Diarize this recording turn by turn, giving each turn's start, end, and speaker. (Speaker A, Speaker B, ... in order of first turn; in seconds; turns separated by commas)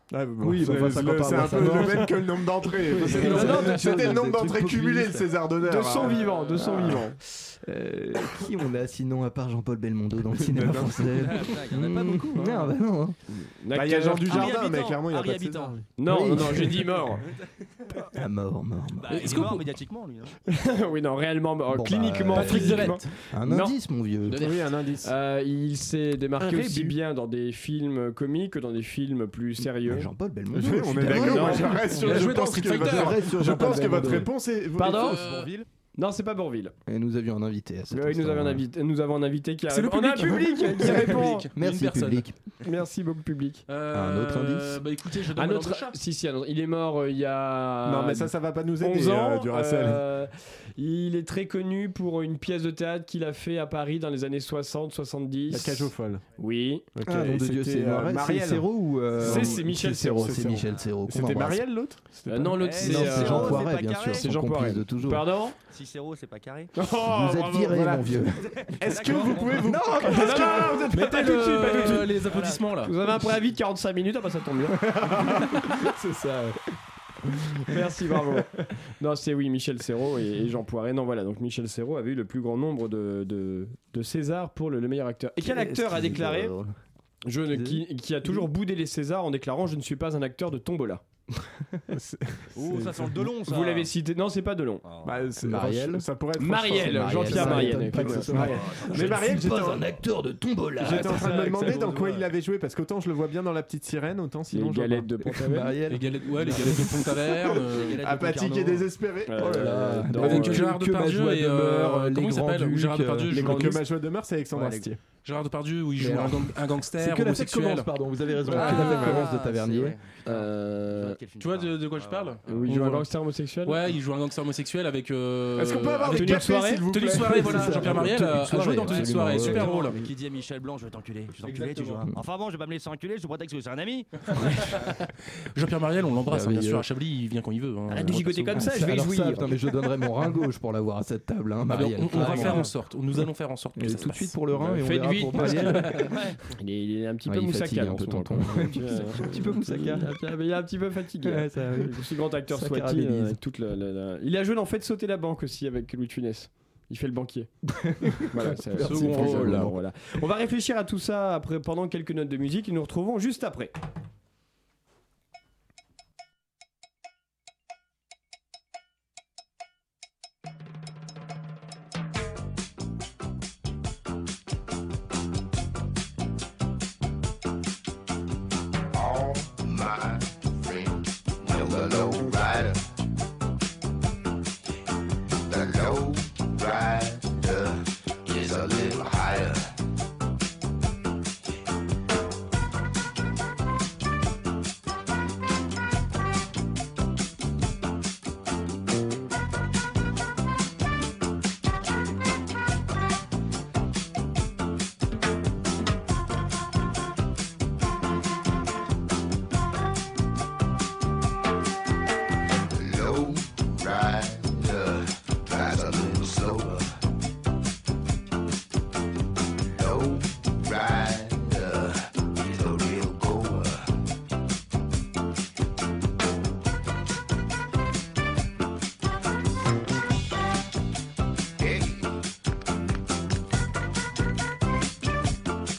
Speaker A: 0.1-6.2, Speaker B: 0.4-2.1, Speaker C: 1.2-1.9, Speaker B: 2.9-5.3, Speaker C: 3.1-3.9, Speaker D: 3.1-3.8, Speaker C: 5.7-7.2, Speaker B: 6.0-13.2, Speaker A: 10.4-11.3, Speaker E: 11.2-12.7, Speaker C: 13.3-14.5, Speaker A: 13.7-15.8, Speaker E: 14.3-15.8, Speaker C: 16.0-17.2, Speaker B: 16.0-16.7, Speaker B: 18.1-19.6, Speaker E: 19.0-20.3, Speaker D: 19.1-19.6, Speaker C: 20.5-23.7, Speaker B: 21.7-24.5, Speaker D: 22.3-23.1, Speaker D: 24.3-24.6, Speaker A: 24.4-25.1, Speaker C: 25.0-30.1, Speaker A: 26.4-26.9, Speaker B: 29.8-34.3, Speaker A: 30.5-35.1, Speaker C: 31.0-31.7, Speaker D: 32.0-33.3, Speaker C: 34.8-35.2, Speaker E: 34.8-35.7, Speaker D: 35.0-35.5, Speaker C: 35.9-36.7, Speaker B: 36.9-38.6, Speaker C: 37.9-41.5, Speaker D: 39.7-42.2, Speaker B: 40.8-42.4, Speaker C: 42.6-43.6, Speaker D: 43.7-46.0, Speaker B: 43.9-44.8, Speaker C: 45.3-56.9, Speaker A: 47.9-50.0, Speaker A: 55.5-56.2, Speaker A: 56.9-62.6, Speaker B: 57.0-61.6, Speaker C: 59.2-60.5, Speaker C: 62.3-65.5, Speaker E: 62.6-64.2, Speaker B: 62.8-65.2, Speaker E: 65.7-66.7, Speaker C: 66.8-67.8, Speaker B: 67.0-68.6, Speaker A: 67.7-68.2, Speaker E: 68.4-69.8, Speaker A: 68.7-71.1, Speaker B: 69.6-71.2, Speaker C: 70.0-72.1, Speaker D: 70.9-72.9, Speaker E: 72.2-72.6, Speaker C: 72.8-74.8, Speaker A: 74.9-75.5, Speaker B: 75.0-76.6, Speaker B: 77.3-77.5, Speaker C: 77.7-86.5, Speaker B: 85.4-86.7, Speaker C: 87.2-91.0, Speaker B: 87.5-88.5, Speaker A: 91.9-93.3, Speaker E: 92.5-93.9, Speaker C: 93.5-94.8, Speaker E: 94.8-95.2, Speaker A: 95.0-99.9, Speaker B: 95.4-96.0, Speaker C: 96.4-98.4, Speaker B: 96.6-101.5, Speaker E: 98.3-99.4, Speaker A: 100.8-105.1, Speaker E: 100.8-102.2, Speaker C: 101.1-101.8, Speaker C: 104.5-105.8, Speaker B: 105.2-107.6, Speaker D: 105.9-108.0, Speaker E: 107.6-108.9, Speaker A: 108.0-109.6, Speaker C: 109.3-110.6, Speaker B: 109.3-113.7, Speaker D: 110.2-113.8, Speaker C: 113.3-113.8, Speaker A: 113.3-115.0, Speaker E: 114.5-114.8, Speaker D: 115.2-117.9, Speaker B: 116.0-120.0, Speaker A: 118.5-119.3, Speaker E: 118.5-122.7, Speaker C: 120.2-121.2, Speaker D: 121.4-123.1, Speaker C: 122.5-123.8, Speaker D: 123.6-130.0, Speaker A: 125.6-128.0, Speaker C: 126.1-126.9, Speaker B: 127.2-129.7, Speaker E: 128.8-134.9, Speaker C: 129.6-130.1, Speaker D: 135.5-138.6, Speaker B: 136.3-136.9, Speaker C: 137.9-139.5, Speaker E: 137.9-138.2, Speaker B: 138.5-143.2, Speaker D: 141.7-144.8, Speaker C: 142.1-142.6, Speaker B: 143.8-146.1, Speaker C: 144.8-145.9, Speaker E: 146.1-146.4, Speaker C: 146.5-157.5, Speaker B: 147.2-150.4, Speaker B: 151.2-153.4, Speaker B: 157.7-159.8, Speaker C: 158.2-163.7, Speaker D: 158.8-159.7, Speaker F: 178.9-182.8, Speaker F: 185.4-189.7, Speaker F: 212.7-216.9, Speaker F: 219.6-224.0, Speaker F: 231.6-232.1